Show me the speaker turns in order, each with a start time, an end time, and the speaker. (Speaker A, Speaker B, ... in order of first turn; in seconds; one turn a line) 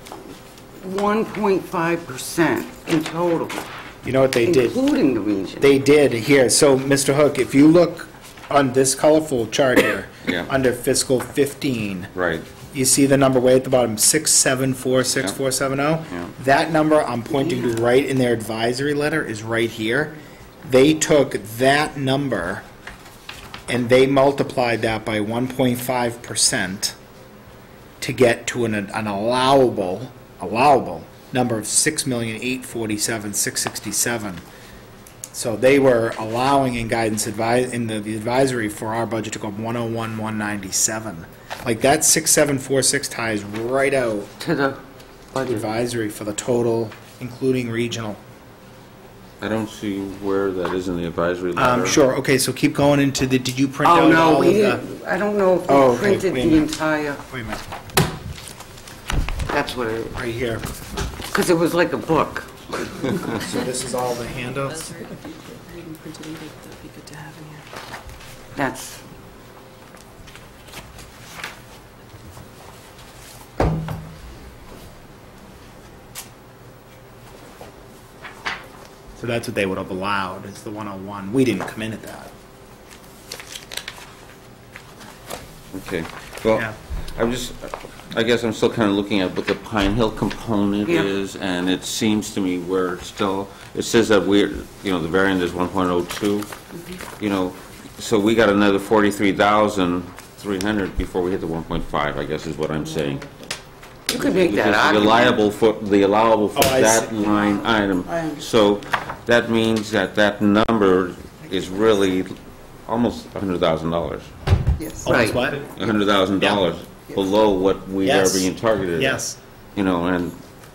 Speaker A: 0.8-3.7
Speaker B: 4.0-4.8
Speaker A: 4.5-5.7
Speaker B: 5.6-12.1
Speaker C: 10.2-10.5
Speaker C: 12.2-12.5
Speaker B: 12.7-22.6
Speaker A: 17.3-17.8
Speaker B: 23.7-26.9
Speaker B: 28.0-34.4
Speaker B: 35.3-44.3
Speaker A: 44.4-44.8
Speaker A: 45.3-45.6
Speaker B: 45.4-48.2
Speaker C: 49.4-52.0
Speaker B: 51.6-54.8
Speaker A: 53.8-57.2
Speaker B: 55.7-56.7
Speaker B: 57.3-57.6
Speaker A: 59.5-60.2
Speaker B: 60.1-60.6
Speaker A: 61.3-63.4
Speaker B: 63.2-65.0
Speaker D: 65.0-67.7
Speaker A: 68.5-69.0
Speaker B: 79.2-82.3
Speaker C: 85.7-96.5
Speaker A: 90.9-91.1
Speaker C: 97.2-103.3
Speaker A: 104.1-105.4
Speaker C: 104.1-114.3
Speaker B: 106.5-107.3
Speaker B: 115.0-115.7
Speaker A: 115.0-115.4
Speaker C: 115.8-119.2
Speaker B: 116.4-116.7
Speaker B: 118.0-119.4
Speaker C: 119.8-120.4